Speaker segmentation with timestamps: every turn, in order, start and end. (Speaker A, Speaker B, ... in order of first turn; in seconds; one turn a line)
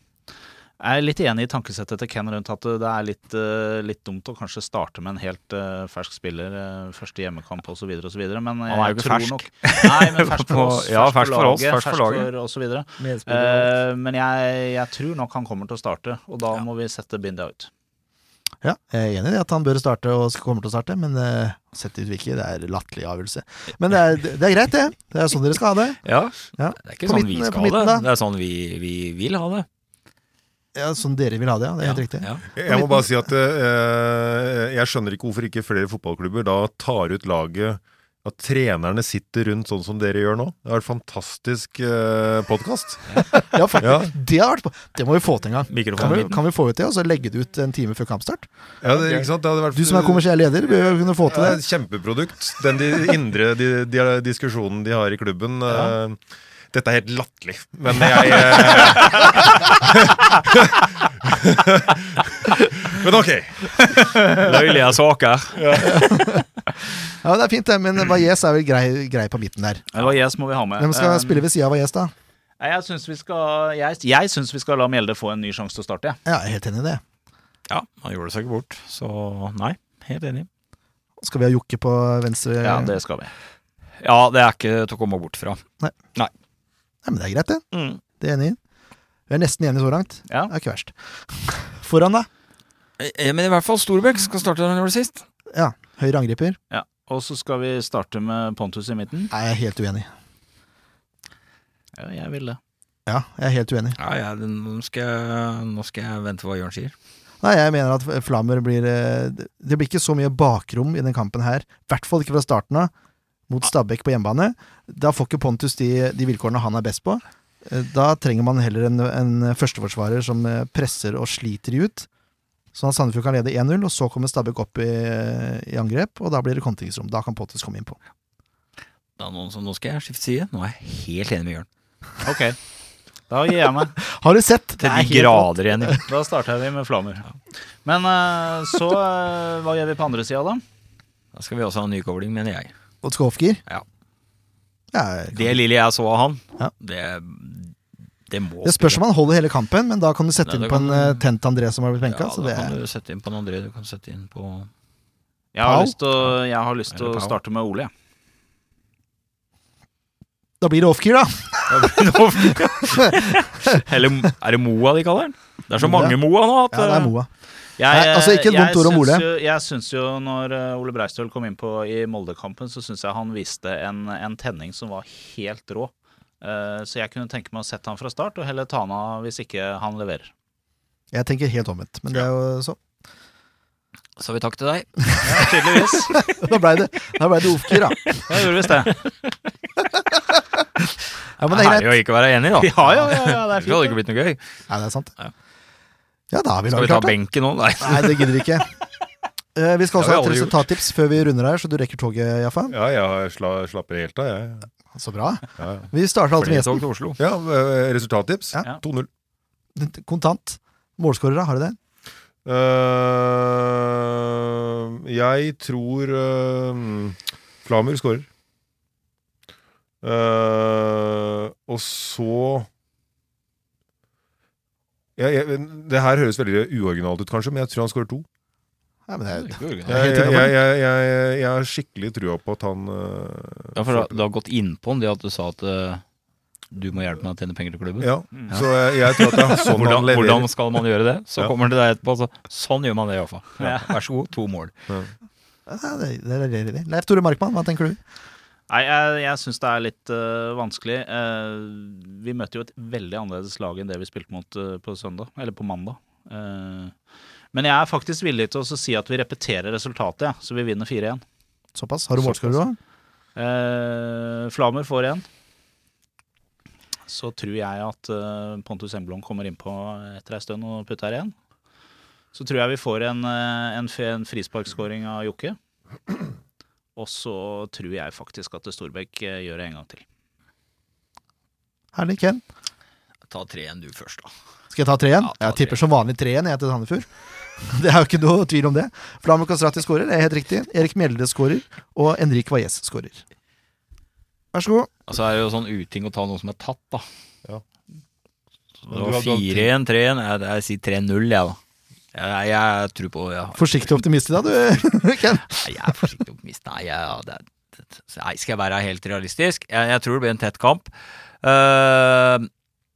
Speaker A: 0.8-17.7
Speaker B: 8.7-12.3
Speaker B: 13.0-13.8
Speaker C: 18.6-28.1
Speaker B: 26.0-29.7
Speaker C: 30.8-33.1
Speaker B: 31.8-32.4
Speaker D: 32.5-43.2
Speaker C: 43.5-48.5
Speaker D: 43.8-44.1
Speaker B: 45.7-46.4
Speaker D: 48.8-50.3
Speaker C: 49.7-51.6
Speaker D: 51.3-56.2
Speaker D: 56.7-64.0
Speaker B: 58.0-59.5
Speaker B: 64.3-66.2
Speaker D: 65.5-66.2
Speaker C: 66.0-66.4
Speaker C: 67.2-69.9
Speaker A: 69.9-71.4
Speaker C: 70.8-72.1
Speaker A: 72.6-76.2
Speaker C: 76.3-77.0
Speaker B: 77.7-80.5
Speaker C: 81.2-83.0
Speaker A: 82.6-83.3
Speaker B: 84.0-86.3
Speaker C: 87.0-87.7
Speaker B: 87.7-88.0
Speaker C: 88.2-88.6
Speaker C: 89.3-92.3
Speaker B: 93.0-95.2
Speaker C: 95.5-96.6
Speaker A: 96.7-99.3
Speaker C: 99.3-100.1
Speaker A: 102.0-102.6
Speaker C: 103.1-104.0
Speaker B: 104.0-106.9
Speaker C: 107.4-112.9
Speaker C: 113.5-122.1
Speaker C: 122.7-128.0
Speaker B: 129.2-131.7
Speaker A: 132.2-132.6
Speaker A: 133.3-134.0
Speaker C: 134.0-136.0
Speaker B: 134.8-136.0
Speaker A: 136.1-140.6
Speaker B: 141.3-142.7
Speaker C: 143.0-143.6
Speaker C: 144.9-145.6
Speaker B: 145.3-147.8
Speaker B: 148.3-149.0
Speaker C: 148.6-152.8
Speaker B: 150.4-151.2
Speaker B: 152.1-154.7
Speaker A: 155.5-157.9
Speaker C: 155.6-156.0
Speaker B: 156.9-157.4
Speaker C: 160.6-161.9
Speaker B: 161.7-167.1
Speaker C: 165.8-166.2
Speaker C: 166.7-167.3
Speaker A: 167.8-180.3
Speaker C: 167.9-169.2
Speaker C: 181.1-182.8
Speaker B: 184.2-186.3
Speaker A: 185.2-186.1
Speaker C: 186.1-188.3
Speaker A: 188.3-188.9
Speaker B: 188.8-189.4
Speaker C: 191.4-192.0
Speaker B: 191.5-194.4
Speaker A: 192.6-194.0
Speaker C: 194.7-195.1
Speaker C: 196.3-197.2
Speaker B: 196.7-198.8
Speaker C: 197.8-198.7
Speaker C: 199.6-202.7
Speaker B: 200.0-200.6
Speaker D: 202.7-204.7
Speaker C: 204.9-206.8
Speaker D: 205.6-205.9
Speaker B: 206.4-207.2
Speaker D: 207.2-209.1
Speaker C: 209.8-211.8
Speaker D: 212.4-218.3
Speaker D: 220.0-222.7
Speaker D: 225.2-228.3
Speaker C: 229.1-230.6
Speaker B: 229.4-230.0
Speaker D: 229.9-234.2
Speaker B: 233.8-236.0
Speaker B: 236.7-244.7
Speaker D: 238.0-240.5
Speaker A: 243.6-243.9
Speaker C: 245.7-248.0
Speaker A: 248.7-256.9
Speaker A: 257.5-261.2
Speaker C: 261.8-262.8
Speaker D: 262.2-262.6
Speaker A: 263.4-265.2
Speaker A: 267.1-271.3
Speaker A: 272.3-275.6
Speaker A: 277.0-280.0
Speaker C: 281.9-282.4
Speaker B: 283.3-284.3
Speaker C: 284.7-293.2
Speaker B: 285.2-285.8
Speaker C: 294.5-294.9
Speaker B: 295.1-297.1
Speaker B: 298.9-301.6
Speaker D: 298.9-299.7
Speaker B: 302.1-303.9
Speaker C: 303.6-306.0
Speaker B: 305.5-312.5